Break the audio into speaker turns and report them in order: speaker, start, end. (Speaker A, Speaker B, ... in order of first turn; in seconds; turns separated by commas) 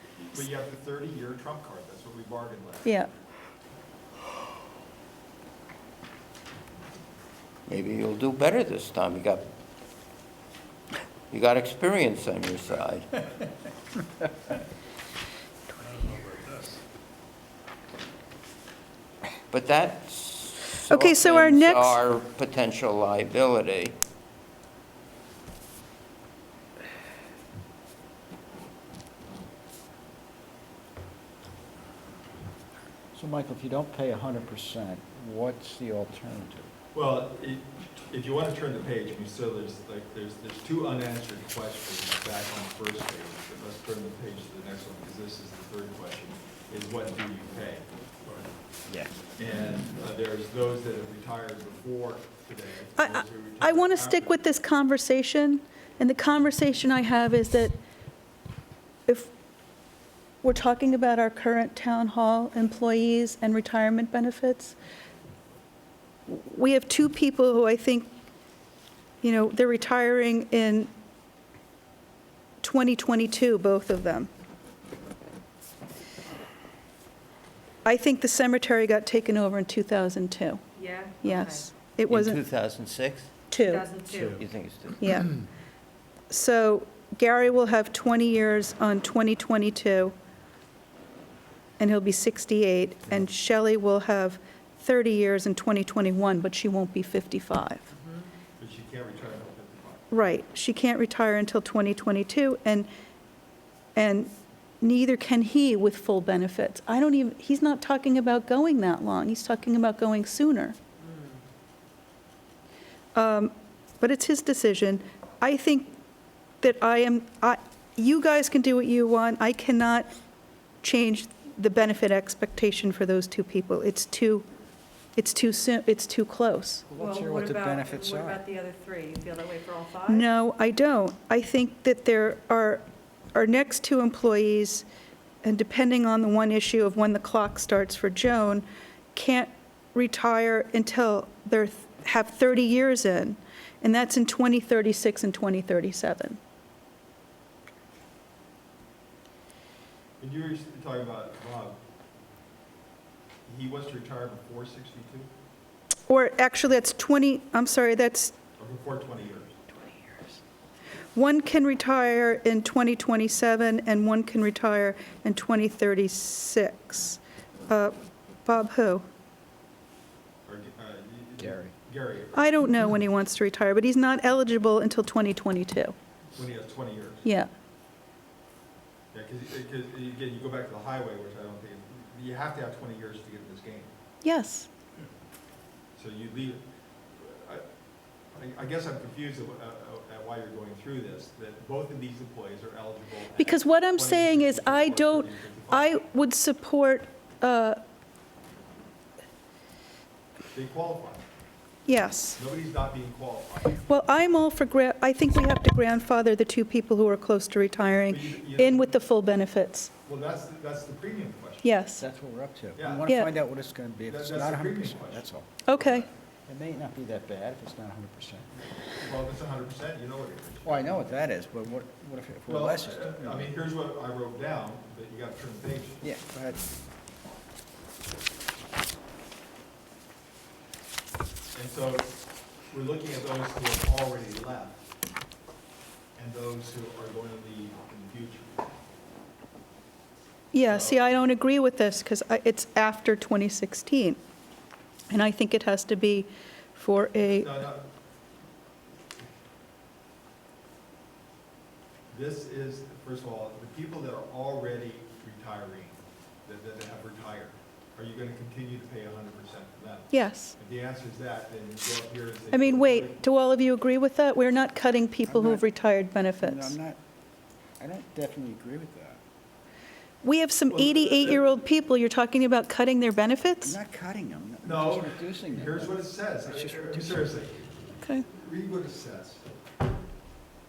Speaker A: 0.3-3.0, Speaker B: 7.7-9.5, Speaker B: 11.3-13.1, Speaker B: 19.5-23.9, Speaker C: 20.9-22.0, Speaker D: 33.1-36.7, Speaker A: 36.9-48.5, Speaker D: 48.9-49.1, Speaker A: 49.4-54.4, Speaker C: 53.0-57.8, Speaker C: 59.1-59.3, Speaker C: 60.4-64.8, Speaker C: 66.3-68.1, Speaker C: 69.2-70.9, Speaker C: 72.6-74.3, Speaker C: 77.8-80.6, Speaker E: 80.8-81.7, Speaker C: 81.2-82.4, Speaker B: 82.1-83.3, Speaker C: 83.5-83.9, Speaker E: 83.6-84.4, Speaker B: 84.2-85.2, Speaker C: 85.0-85.3, Speaker C: 86.3-90.2, Speaker C: 91.8-97.9, Speaker A: 98.6-100.2, Speaker C: 100.1-102.9, Speaker C: 104.0-110.8, Speaker C: 113.2-116.0, Speaker C: 116.6-120.1, Speaker C: 120.8-124.5, Speaker C: 125.2-126.8, Speaker D: 126.9-128.4, Speaker E: 127.0-130.3, Speaker C: 130.1-134.9, Speaker C: 135.4-146.4, Speaker A: 150.2-151.8, Speaker A: 153.5-155.3, Speaker C: 156.1-158.4, Speaker A: 158.6-159.6, Speaker C: 161.2-169.1, Speaker A: 170.5-173.0, Speaker D: 171.4-171.7, Speaker C: 172.3-176.0, Speaker A: 176.3-177.3, Speaker C: 177.2-177.5, Speaker A: 179.1-183.9, Speaker C: 184.2-184.7, Speaker A: 186.0-186.6, Speaker A: 187.2-187.7, Speaker A: 188.3-195.9, Speaker C: 193.4-197.8, Speaker A: 200.5-201.2, Speaker C: 201.9-202.4, Speaker A: 202.4-203.8, Speaker C: 203.8-209.9, Speaker A: 208.1-208.9, Speaker A: 210.0-211.8, Speaker C: 211.6-212.0, Speaker D: 212.0-215.5, Speaker A: 212.8-213.1, Speaker C: 213.1-213.3, Speaker A: 214.1-215.9, Speaker C: 215.7-216.1, Speaker D: 216.5-218.5, Speaker A: 219.0-221.2, Speaker D: 220.6-223.5, Speaker A: 222.5-226.0, Speaker D: 226.0-226.6, Speaker A: 231.5-232.1, Speaker A: 232.7-234.8, Speaker A: 236.2-238.7, Speaker C: 240.5-244.2, Speaker A: 240.7-241.0, Speaker C: 245.1-247.5, Speaker A: 247.3-247.9, Speaker A: 252.1-263.2, Speaker C: 260.1-260.6, Speaker C: 262.5-266.7, Speaker D: 265.3-265.7, Speaker D: 266.4-267.0, Speaker D: 267.8-269.2, Speaker C: 270.2-273.8, Speaker A: 270.7-271.6, Speaker D: 273.6-277.3, Speaker A: 274.6-277.7, Speaker C: 278.0-278.3, Speaker A: 278.3-279.5